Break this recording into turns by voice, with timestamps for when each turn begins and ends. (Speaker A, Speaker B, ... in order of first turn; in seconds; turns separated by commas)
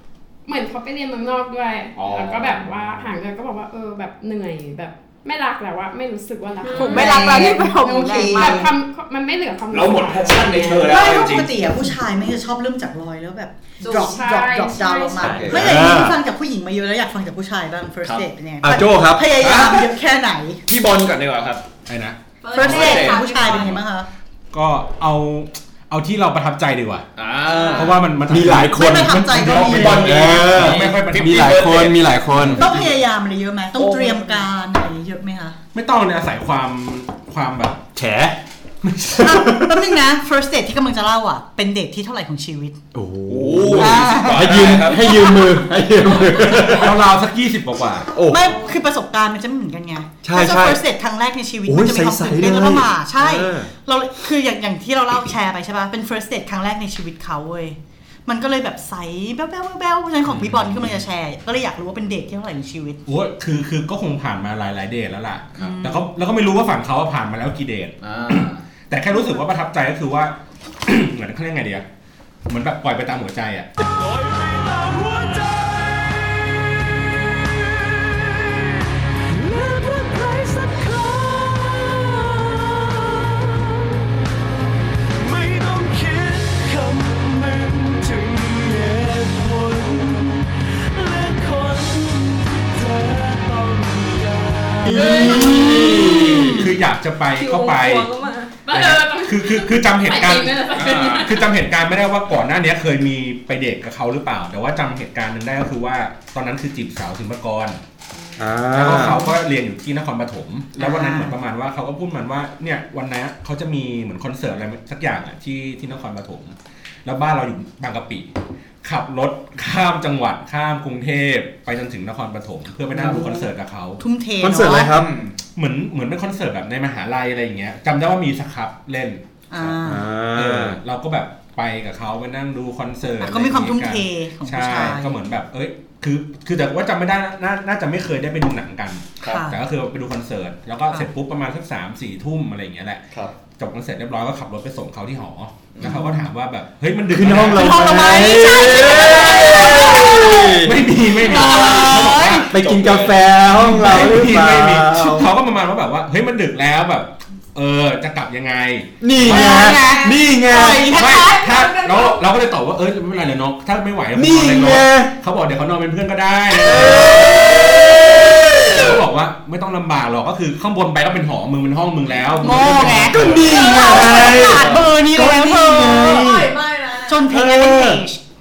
Speaker A: 0.5-7.7, Speaker B: 1.9-2.9, Speaker C: 6.6-8.7, Speaker D: 6.7-8.7, Speaker A: 8.2-11.0, Speaker B: 9.7-11.5, Speaker D: 10.9-20.6, Speaker A: 13.8-15.6, Speaker E: 15.2-16.2, Speaker B: 15.2-15.9, Speaker B: 18.0-18.3, Speaker E: 18.6-19.3, Speaker B: 19.4-19.9, Speaker B: 20.7-21.6, Speaker F: 21.9-22.2, Speaker C: 22.4-23.8, Speaker D: 22.5-24.1, Speaker B: 22.6-23.7, Speaker F: 24.5-27.1, Speaker B: 27.2-28.0, Speaker F: 27.7-32.6, Speaker E: 28.3-32.6, Speaker D: 28.4-30.3, Speaker B: 29.6-32.9, Speaker D: 32.5-35.6, Speaker B: 33.8-34.5, Speaker F: 35.7-37.9, Speaker E: 38.0-38.4, Speaker F: 38.8-39.5, Speaker E: 39.2-40.0, Speaker D: 39.2-42.8, Speaker E: 42.9-47.0, Speaker B: 43.3-45.3, Speaker D: 43.8-45.7, Speaker F: 46.3-48.1, Speaker E: 48.1-48.6, Speaker D: 48.2-63.0, Speaker E: 50.2-50.8, Speaker E: 51.6-53.7, Speaker F: 63.1-71.9, Speaker D: 65.6-66.1, Speaker B: 68.0-68.6, Speaker F: 72.5-73.7, Speaker G: 73.8-84.0, Speaker G: 85.2-96.2, Speaker E: 94.8-96.8, Speaker H: 94.9-96.5, Speaker D: 95.1-95.9, Speaker F: 96.4-98.1, Speaker H: 97.3-98.5, Speaker A: 98.6-101.5, Speaker F: 98.7-107.8, Speaker B: 100.7-101.3, Speaker E: 108.4-109.3, Speaker F: 108.7-118.3, Speaker D: 110.8-111.3, Speaker F: 118.8-124.0, Speaker D: 123.0-123.5, Speaker D: 124.0-125.0, Speaker E: 124.4-125.2, Speaker B: 125.0-125.3, Speaker F: 125.5-129.8, Speaker D: 129.5-130.1, Speaker E: 129.8-130.8, Speaker F: 130.3-147.8, Speaker D: 133.2-135.2, Speaker D: 139.2-139.6, Speaker B: 145.7-146.0, Speaker D: 145.8-146.3, Speaker E: 147.1-150.9, Speaker D: 147.6-150.6, Speaker F: 150.6-152.5, Speaker D: 151.1-152.5, Speaker E: 152.1-155.3, Speaker B: 152.5-153.2, Speaker F: 153.5-159.8, Speaker E: 159.0-160.9, Speaker D: 159.2-161.4, Speaker C: 159.8-162.2, Speaker F: 160.9-167.9, Speaker E: 164.2-165.2, Speaker E: 166.6-169.0, Speaker F: 168.5-173.7, Speaker D: 172.4-176.5, Speaker E: 172.8-176.5, Speaker C: 176.3-177.1, Speaker D: 177.1-178.2, Speaker E: 177.3-178.1